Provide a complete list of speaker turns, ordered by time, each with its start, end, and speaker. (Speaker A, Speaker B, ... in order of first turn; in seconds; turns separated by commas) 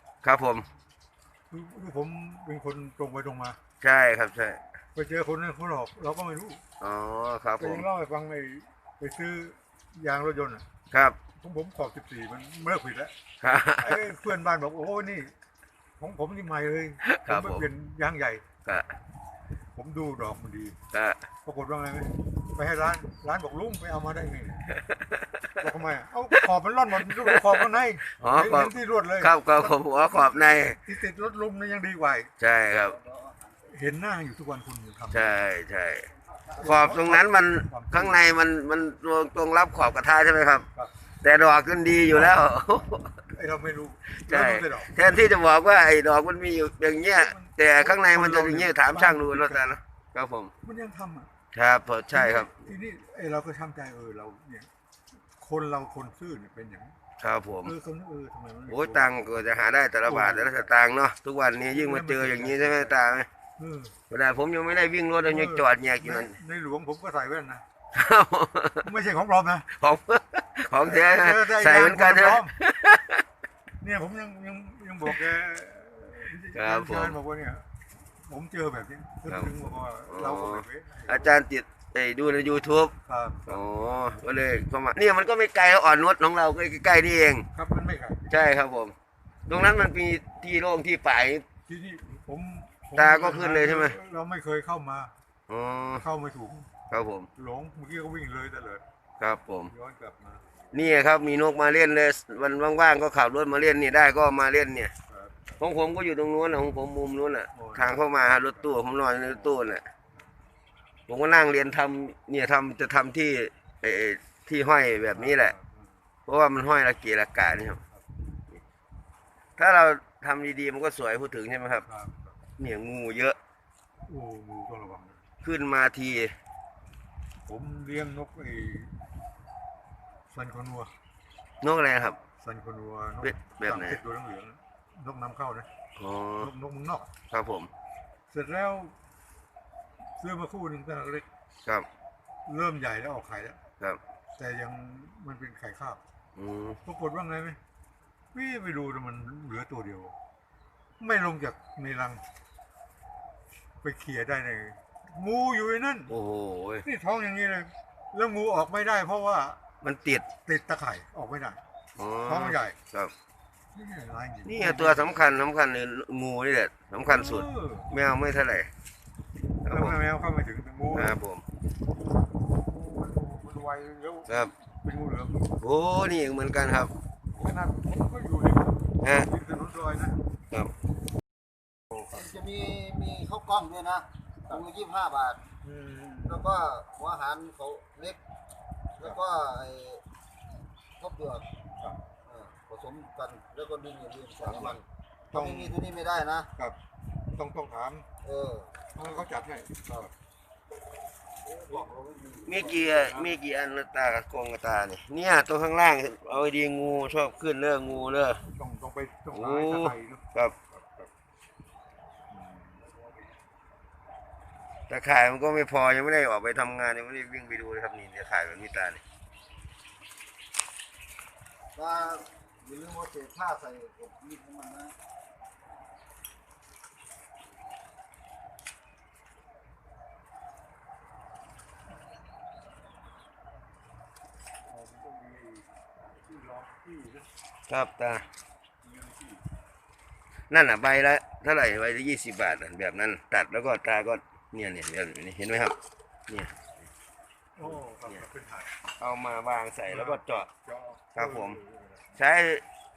Speaker A: 0.2-0.7, Speaker B: 1.5-3.6, Speaker A: 3.8-4.6, Speaker B: 4.9-6.6, Speaker A: 6.8-7.8, Speaker B: 7.6-10.7, Speaker A: 10.9-11.2, Speaker B: 11.3-13.1, Speaker A: 13.4-14.0, Speaker B: 13.8-15.3, Speaker B: 16.0-18.4, Speaker A: 17.1-17.6, Speaker B: 19.7-20.8, Speaker A: 20.9-21.2, Speaker B: 21.4-24.7, Speaker A: 24.7-25.4, Speaker B: 25.6-32.3, Speaker A: 28.1-30.8, Speaker A: 32.4-33.0, Speaker C: 33.0-33.5, Speaker B: 33.6-35.3, Speaker A: 35.1-40.7, Speaker B: 36.5-38.2, Speaker A: 41.2-43.2, Speaker B: 42.1-42.4, Speaker B: 43.3-45.2, Speaker A: 44.1-50.5, Speaker B: 47.1-49.7, Speaker B: 50.6-51.3, Speaker A: 51.5-52.6, Speaker B: 52.1-54.7, Speaker B: 55.4-56.9, Speaker A: 57.2-57.7, Speaker B: 57.6-59.2, Speaker A: 58.7-63.3, Speaker B: 60.0-60.7, Speaker B: 61.6-63.0, Speaker B: 63.6-63.9, Speaker A: 64.1-66.3, Speaker B: 65.2-67.6, Speaker A: 67.9-68.9, Speaker B: 68.8-69.7, Speaker A: 69.7-73.2, Speaker B: 70.7-72.5, Speaker B: 73.8-77.7, Speaker A: 76.5-77.2, Speaker B: 78.2-81.4, Speaker A: 80.1-82.9, Speaker B: 83.0-83.6, Speaker A: 83.5-87.5, Speaker B: 87.5-88.3, Speaker A: 88.3-88.9, Speaker A: 89.5-91.4, Speaker B: 91.7-95.1, Speaker A: 92.9-94.0, Speaker A: 95.5-96.0, Speaker B: 96.0-96.7, Speaker A: 96.9-97.3, Speaker B: 97.3-98.8, Speaker A: 99.2-99.7, Speaker B: 99.7-100.4, Speaker A: 100.7-104.9, Speaker B: 105.1-105.6, Speaker A: 105.6-109.8, Speaker B: 107.5-109.5, Speaker A: 111.1-115.5, Speaker B: 115.1-115.9, Speaker A: 116.2-117.8, Speaker A: 119.6-121.8, Speaker B: 121.9-122.3, Speaker A: 122.6-123.4, Speaker B: 124.0-125.2, Speaker A: 125.4-126.3, Speaker B: 127.5-128.9, Speaker B: 130.3-130.9, Speaker A: 131.6-132.2, Speaker B: 132.4-135.7, Speaker A: 133.2-134.0, Speaker A: 135.9-136.5, Speaker B: 136.4-137.1, Speaker A: 137.3-137.7, Speaker B: 138.3-138.9, Speaker B: 140.2-141.2, Speaker B: 142.4-143.6, Speaker B: 144.4-146.0, Speaker A: 146.3-146.8, Speaker B: 146.8-147.6, Speaker B: 148.3-150.1, Speaker B: 151.0-152.2, Speaker B: 153.8-156.1, Speaker A: 156.1-156.8, Speaker B: 156.8-159.6, Speaker A: 159.8-160.3, Speaker B: 160.4-161.6, Speaker A: 162.0-163.1, Speaker B: 162.2-162.8, Speaker B: 163.7-165.2, Speaker A: 164.4-168.7, Speaker B: 167.0-167.9, Speaker A: 169.6-170.0, Speaker B: 169.6-171.2, Speaker A: 170.9-171.4, Speaker B: 172.4-175.6, Speaker A: 174.3-174.5, Speaker A: 175.6-176.9, Speaker B: 177.3-180.2, Speaker A: 179.0-179.3, Speaker C: 182.2-185.4, Speaker B: 185.6-186.5, Speaker C: 186.3-188.2, Speaker C: 189.1-190.0, Speaker C: 191.0-191.4, Speaker C: 192.2-194.8, Speaker B: 194.4-194.8, Speaker B: 195.3-195.8, Speaker C: 195.3-196.5, Speaker B: 197.3-198.1, Speaker C: 198.2-198.7, Speaker B: 198.9-200.1, Speaker C: 201.4-202.4, Speaker A: 202.4-208.4, Speaker B: 202.5-203.3, Speaker B: 208.5-211.1, Speaker A: 209.3-210.5, Speaker B: 212.3-212.9, Speaker A: 214.9-219.0, Speaker C: 221.8-224.9, Speaker B: 234.7-237.3, Speaker A: 237.7-238.2, Speaker B: 238.8-239.4, Speaker A: 240.5-245.8, Speaker A: 246.3-246.7, Speaker B: 247.5-248.7, Speaker A: 247.6-248.2, Speaker A: 249.0-250.5, Speaker B: 249.9-252.1, Speaker A: 251.1-251.6, Speaker A: 252.2-252.6